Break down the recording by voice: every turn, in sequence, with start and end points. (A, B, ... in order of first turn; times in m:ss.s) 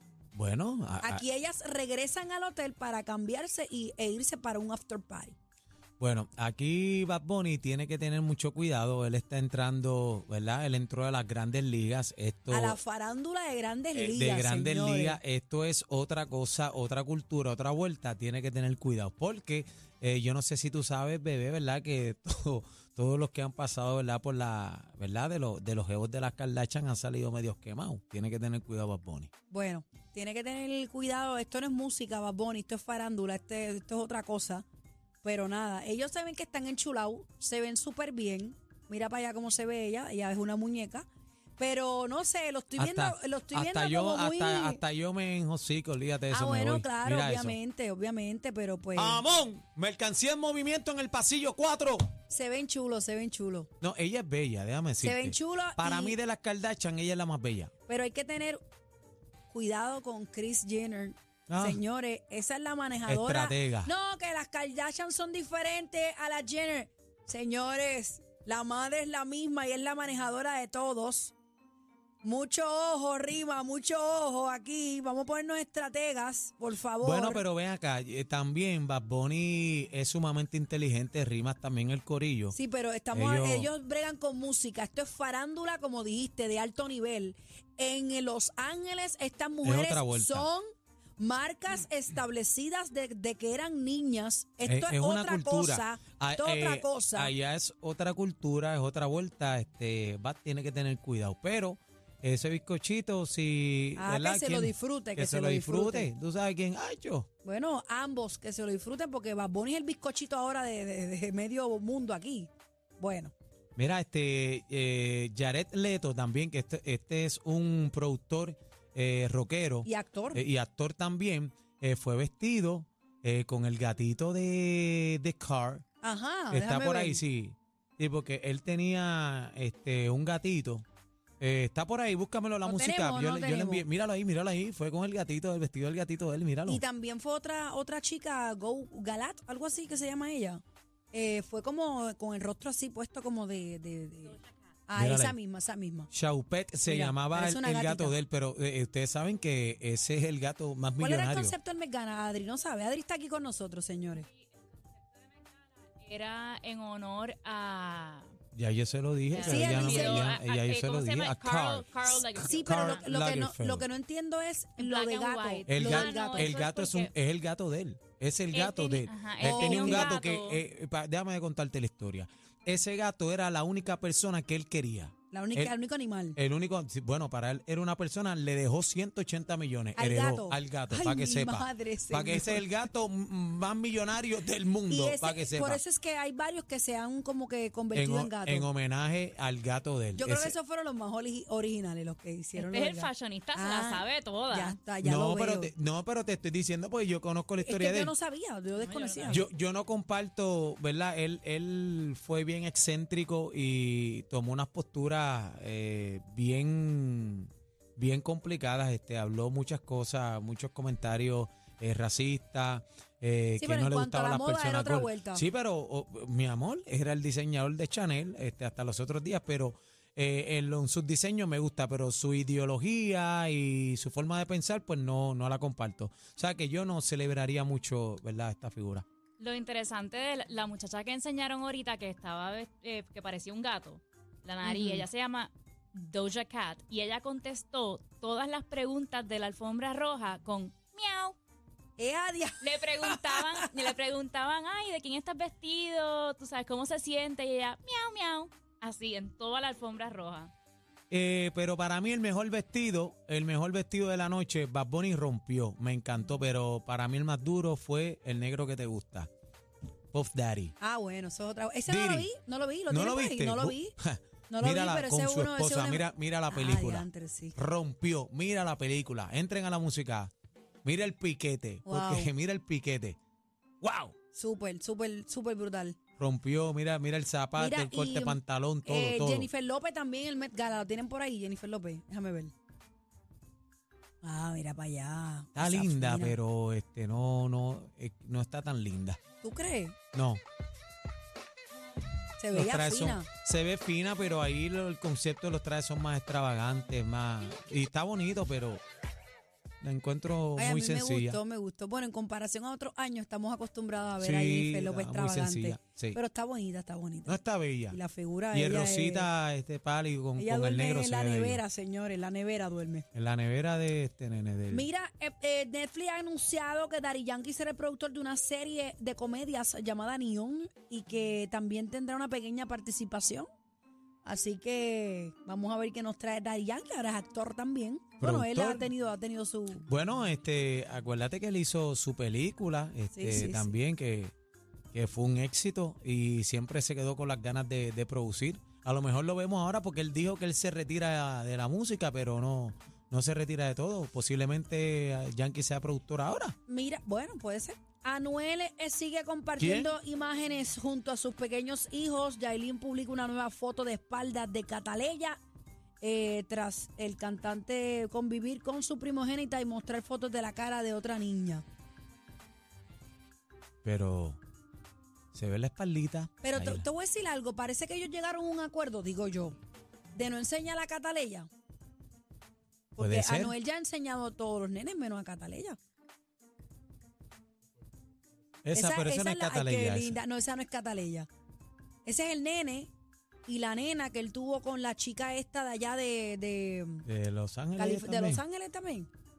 0:00.3-0:01.2 A
0:01.0-0:05.4 B
0:06.0-0:12.8 A
0:12.5-0:15.2 B
0:13.9-0:29.3 A
0:29.5-0:34.6 B
0:35.2-0:41.1 B
0:41.6-0:44.8 B
0:42.8-0:47.6 A
0:46.3-0:49.2 B
0:49.0-0:52.1 A
0:52.3-0:53.7 B
0:53.8-0:57.7 A
0:55.0-0:56.2 B
0:57.9-0:58.6 B
0:59.5-1:11.3 B
1:01.5-1:01.8 A
1:03.1-1:03.9 A
1:12.2-1:17.4 B
1:17.0-1:22.6 A
1:22.5-1:30.6 B
1:23.1-1:23.7 A
1:29.6-1:30.5 A
1:31.2-1:37.3 B
1:34.6-1:47.3 A
1:44.0-1:46.1 B
1:47.4-1:53.3 B
1:53.8-2:05.8 A
1:59.8-2:00.4 B
2:06.0-2:07.2 B
2:06.5-2:10.8 A
2:11.4-2:16.8 A
2:12.6-2:13.9 B
2:16.7-2:24.4 B
2:24.9-2:26.1 B
2:25.0-2:25.4 A
2:26.1-2:31.6 A
2:26.9-2:28.2 B
2:31.0-2:34.2 B
2:34.2-2:38.3 C
2:38.5-2:41.9 A
2:39.3-2:43.1 C
2:39.4-2:40.3 B
2:42.3-2:46.6 B
2:42.6-2:43.9 A
2:44.8-2:47.1 C
2:45.7-2:55.7 A
2:48.5-2:50.6 C
2:49.4-2:50.2 B
2:55.3-2:56.4 B
2:56.4-3:05.8 A
3:00.0-3:02.7 B
3:04.9-3:08.7 B
3:07.9-3:10.6 A
3:10.2-3:15.7 B
3:12.6-3:14.8 C
3:15.0-3:18.1 A
3:17.6-3:19.4 B
3:18.8-3:19.4 C
3:19.3-3:49.0 A
3:33.6-3:35.4 B
3:49.4-4:01.4 C
3:54.6-3:55.0 B
4:02.0-4:03.7 B
4:02.6-4:10.5 C
4:11.1-4:19.3 A
4:20.1-4:20.7 A
4:20.8-4:23.9 B
4:21.9-4:22.3 A
4:22.9-4:30.3 A
4:24.5-4:27.6 B
4:30.8-4:33.2 A
4:31.9-4:32.3 B
4:33.8-4:34.1 A
4:34.3-4:36.0 B
4:36.2-4:39.5 A
4:37.6-4:42.5 B
4:44.2-4:46.4 B
4:45.6-4:49.2 A
4:49.4-4:50.0 B
4:50.1-4:50.4 A
4:52.4-4:53.3 B
4:52.5-4:58.8 A
4:59.8-5:01.4 A
5:00.6-5:09.3 B
5:04.2-5:06.2 A
5:07.3-5:08.0 A
5:08.5-5:11.6 A
5:10.4-5:13.1 B
5:13.1-5:14.9 A
5:14.7-5:23.5 B
5:24.2-5:29.8 B
5:28.2-5:28.9 A
5:29.8-5:34.3 A
5:33.1-5:33.7 B
5:34.9-5:46.6 A
5:46.7-5:55.4 B
5:49.6-5:49.9 A
5:56.0-6:01.6 B
6:03.8-6:04.4 A
6:05.3-6:06.9 A
6:06.4-6:09.6 B
6:10.1-6:11.5 B
6:13.0-6:15.8 B
6:13.0-6:13.6 A
6:18.6-6:20.2 A
6:18.7-6:21.3 B
6:22.0-6:22.9 B
6:23.5-6:27.1 B
6:27.0-6:28.4 A
6:27.8-6:29.1 B